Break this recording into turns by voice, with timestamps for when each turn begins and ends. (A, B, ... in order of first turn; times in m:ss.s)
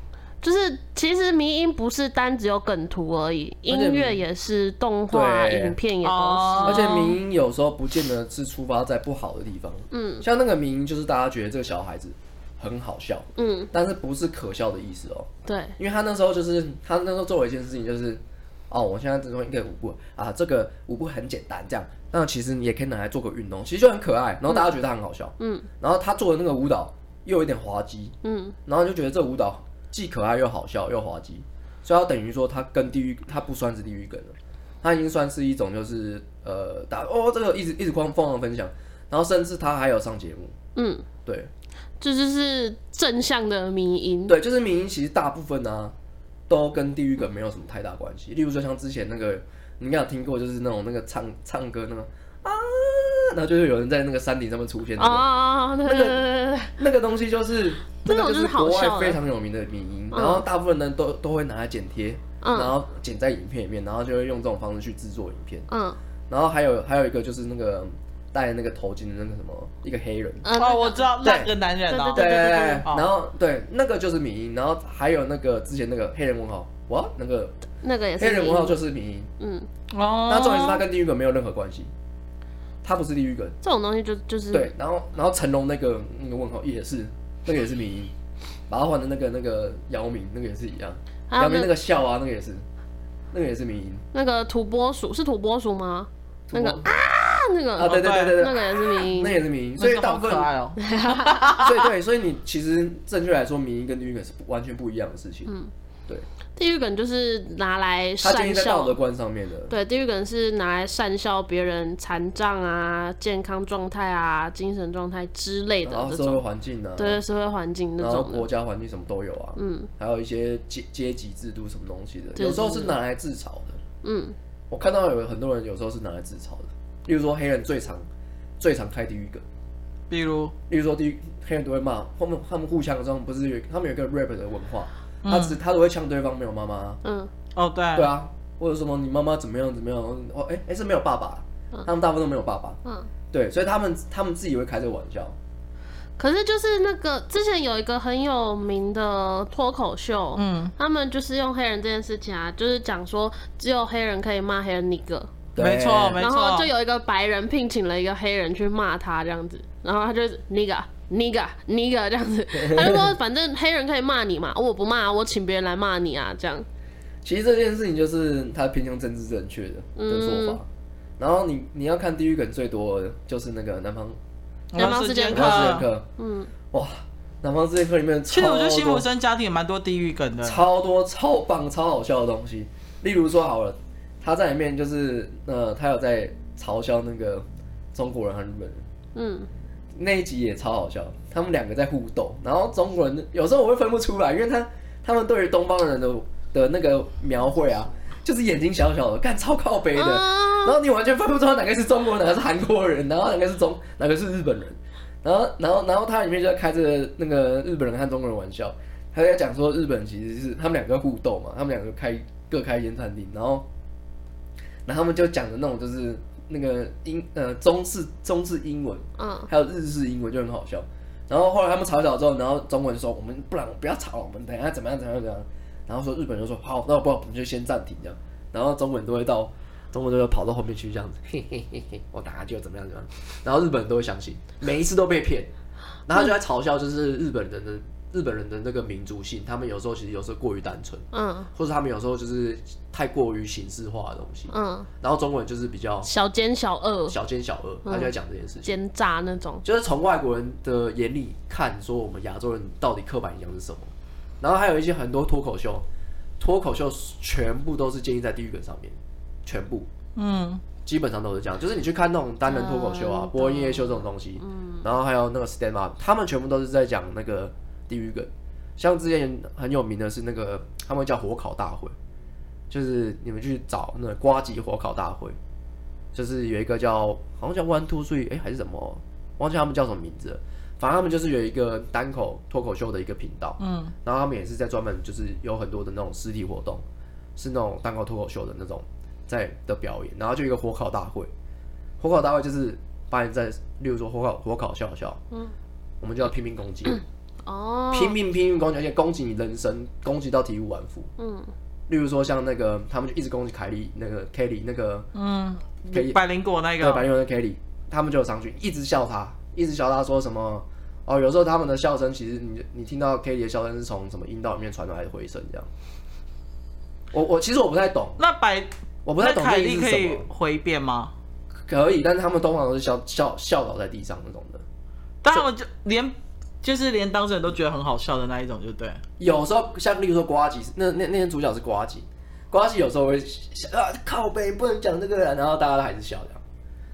0:00.4-0:07.1 A
0:03.7-0:04.2 B
0:05.1-0:05.8 B
0:06.0-0:07.1 C
0:06.6-0:28.2 B
0:09.9-0:10.2 A
0:13.4-0:13.7 A
0:15.5-0:15.8 A
0:25.4-0:25.7 A
0:28.2-0:28.6 A
0:28.7-0:40.6 B
0:40.8-0:41.1 A
0:41.2-0:41.5 B
0:42.0-0:44.4 A
0:44.3-0:46.0 B
0:46.5-0:55.3 B
0:55.0-0:56.7 A
0:55.8-1:05.7 B
0:58.0-0:59.2 A
1:00.1-1:00.4 A
1:02.4-1:02.8 A
1:05.7-1:06.0 A
1:06.3-1:10.4 B
1:10.4-1:11.2 A
1:10.6-1:12.3 C
1:11.2-1:11.5 B
1:11.9-1:12.9 A
1:12.1-1:17.6 B
1:12.8-1:13.1 C
1:17.8-1:18.8 A
1:18.2-1:19.3 B
1:19.4-1:19.7 A
1:19.9-1:20.8 C
1:20.3-1:21.9 B
1:22.8-1:23.6 B
1:23.6-1:24.7 A
1:24.5-1:28.1 B
1:28.7-1:32.6 B
1:31.3-1:31.7 A
1:33.3-1:34.0 B
1:34.1-1:39.4 A
1:36.5-1:36.9 B
1:37.8-1:40.5 B
1:37.8-1:38.4 C
1:39.8-1:41.7 C
1:40.8-1:41.7 A
1:41.6-1:45.5 B
1:46.6-1:49.0 A
1:48.2-1:49.7 B
1:49.7-1:56.4 A
1:55.8-1:57.2 B
1:57.0-1:58.5 A
1:58.0-2:03.8 B
1:59.6-1:59.9 A
2:02.4-2:03.0 A
2:04.0-2:04.4 A
2:04.7-2:08.1 B
2:08.6-2:09.4 B
2:10.1-2:10.6 C
2:10.7-2:17.0 B
2:15.2-2:15.6 C
2:17.0-2:17.3 A
2:17.6-2:18.1 C
2:18.0-2:22.8 B
2:23.3-2:25.4 B
2:26.2-2:35.3 A
2:30.4-2:30.7 C
2:35.6-2:36.2 B
2:35.6-2:36.7 C
2:36.2-2:46.7 A
2:42.5-2:43.1 B
2:47.2-2:50.7 B
2:50.0-2:50.6 A
2:51.2-2:54.2 B
2:54.7-2:55.9 C
2:54.8-2:56.5 A
2:55.3-2:56.1 B
2:56.7-2:59.1 B
2:58.3-3:00.6 C
3:00.4-3:08.8 B
3:09.2-3:09.5 A
3:10.0-3:33.7 B
3:20.0-3:20.8 A
3:34.9-3:55.5 B
3:39.2-3:39.5 A
3:56.1-4:06.1 B
4:01.1-4:01.5 A
4:04.5-4:04.9 A
4:06.0-4:07.2 A
4:07.1-4:08.7 B
4:07.8-4:08.1 A
4:08.6-4:09.6 A
4:09.6-4:15.8 B
4:16.4-4:19.9 B
4:20.2-4:20.6 C
4:20.8-4:32.0 B
4:22.5-4:24.8 A
4:32.7-4:35.4 B
4:36.1-4:46.8 B
4:43.6-4:43.9 C
4:47.4-4:51.3 B
4:52.0-4:55.2 B
4:56.0-4:57.0 B
4:57.4-4:58.2 A
4:57.9-5:01.1 B
5:01.2-5:01.5 A
5:01.9-5:05.1 B
5:05.2-5:07.1 C
5:05.9-5:06.2 B
5:06.8-5:15.7 B
5:17.1-5:18.2 B
5:18.2-5:21.1 C
5:19.1-5:20.3 B
5:21.7-5:24.6 B
5:25.2-5:29.0 C
5:29.2-5:36.4 B